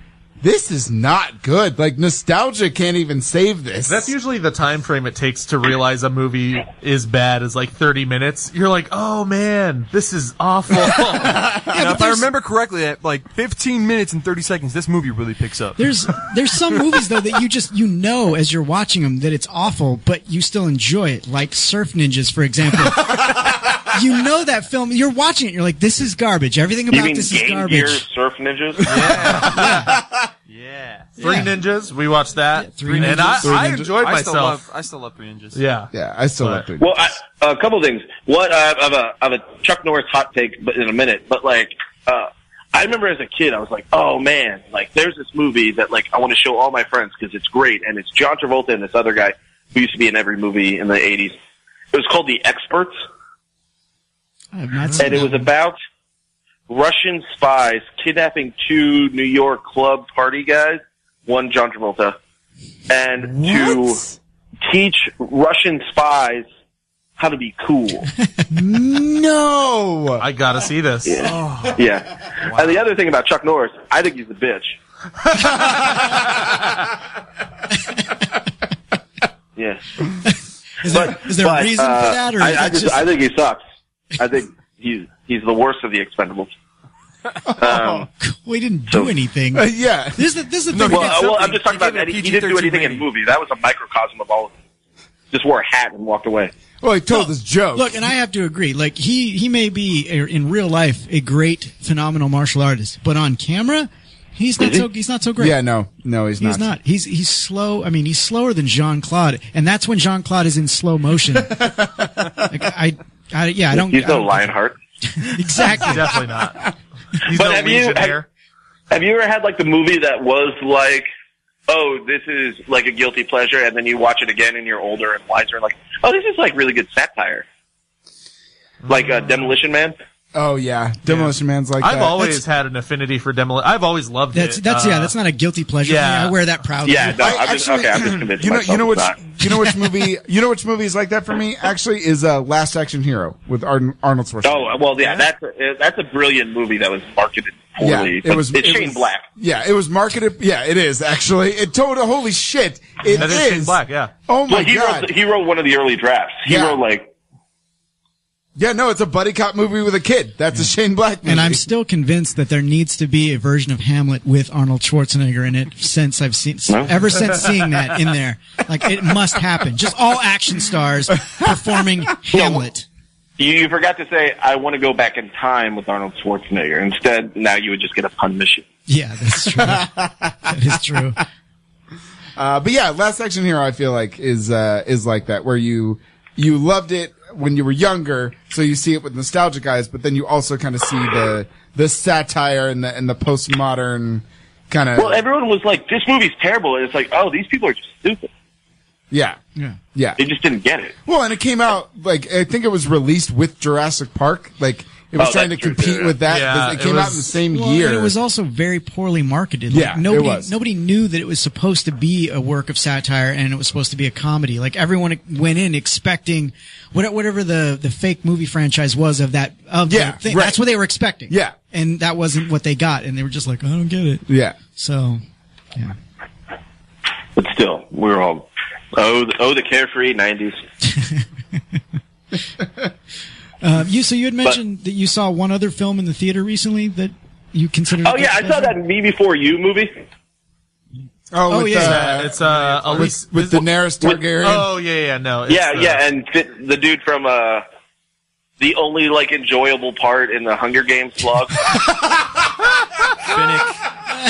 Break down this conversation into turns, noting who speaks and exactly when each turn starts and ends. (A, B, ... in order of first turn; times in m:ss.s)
0:00.4-0:04.1 A
0:03.9-0:11.5 B
0:11.0-0:12.0 A
0:11.7-0:12.3 C
0:11.8-0:15.9 D
0:15.8-0:28.0 C
0:23.1-0:23.7 A
0:26.9-0:28.9 E
0:28.8-0:29.9 D
0:28.9-0:30.3 A
0:29.3-0:29.8 B
0:30.5-0:31.2 D
0:31.2-0:31.5 C
0:31.2-0:34.6 B
0:32.6-0:33.4 C
0:32.8-0:35.6 D
0:33.4-0:33.9 A
0:35.5-0:35.9 B
0:35.9-0:37.1 A
0:36.8-0:51.4 E
0:51.9-0:52.9 E
0:54.5-0:55.5 C
0:55.0-0:55.8 E
0:56.7-1:02.2 E
1:02.9-1:04.0 E
1:03.2-1:04.2 A
1:04.6-1:06.5 E
1:07.2-1:08.1 E
1:08.5-1:10.2 A
1:10.2-1:11.2 B
1:11.1-1:14.8 E
1:11.2-1:11.8 D
1:12.5-1:12.8 D
1:19.6-1:19.8 E
1:20.2-1:23.1 C
1:20.9-1:23.6 E
1:24.2-1:26.5 E
1:27.5-1:28.1 A
1:27.6-1:28.1 E
1:28.2-1:31.6 C
1:29.5-1:30.2 A
1:30.7-1:33.1 D
1:30.9-1:34.5 E
1:35.3-1:36.5 E
1:36.8-1:38.0 A
1:37.1-1:45.6 C
1:44.6-1:44.8 E
1:45.4-1:46.7 A
1:46.4-1:51.8 C
1:51.6-1:52.3 A
1:52.5-1:54.5 C
1:53.7-1:54.8 E
1:55.2-1:56.1 C
1:55.8-1:58.3 B
1:57.3-1:58.2 E
1:58.9-2:01.1 E
2:01.7-2:07.4 E
2:08.8-2:09.3 B
2:08.9-2:10.0 E
2:10.3-2:12.4 A
2:11.1-2:15.1 B
2:14.3-2:17.3 C
2:15.8-2:16.4 B
2:16.8-2:19.2 E
2:17.2-2:25.1 A
2:24.4-2:29.2 E
2:27.8-2:35.1 A
2:33.2-2:34.1 B
2:34.5-2:37.1 E
2:36.5-2:36.8 A
2:38.6-2:41.6 A
2:41.2-2:52.9 C
2:46.7-2:47.0 E
2:52.3-2:52.6 E
2:53.4-2:58.7 E
2:58.9-2:59.9 C
2:59.5-3:01.0 A
3:00.5-3:01.2 C
3:02.4-3:15.2 A
3:15.0-3:18.3 E
3:19.1-3:19.4 A
3:20.0-3:20.2 A
3:20.2-3:21.0 E
3:21.0-3:28.1 A
3:25.2-3:26.2 E
3:26.2-3:27.3 B
3:27.5-3:45.2 C
3:29.7-3:30.5 A
3:39.9-3:40.6 A
3:41.3-3:41.6 A
3:44.3-3:44.6 A
3:47.4-3:50.6 E
3:50.8-3:51.2 C
3:53.6-3:58.8 C
3:58.0-4:00.1 E
4:01.3-4:04.7 A
4:01.5-4:02.1 C
4:01.8-4:03.7 B
4:04.4-4:06.0 B
4:05.5-4:07.6 E
4:08.6-4:11.5 E
4:13.3-4:13.8 D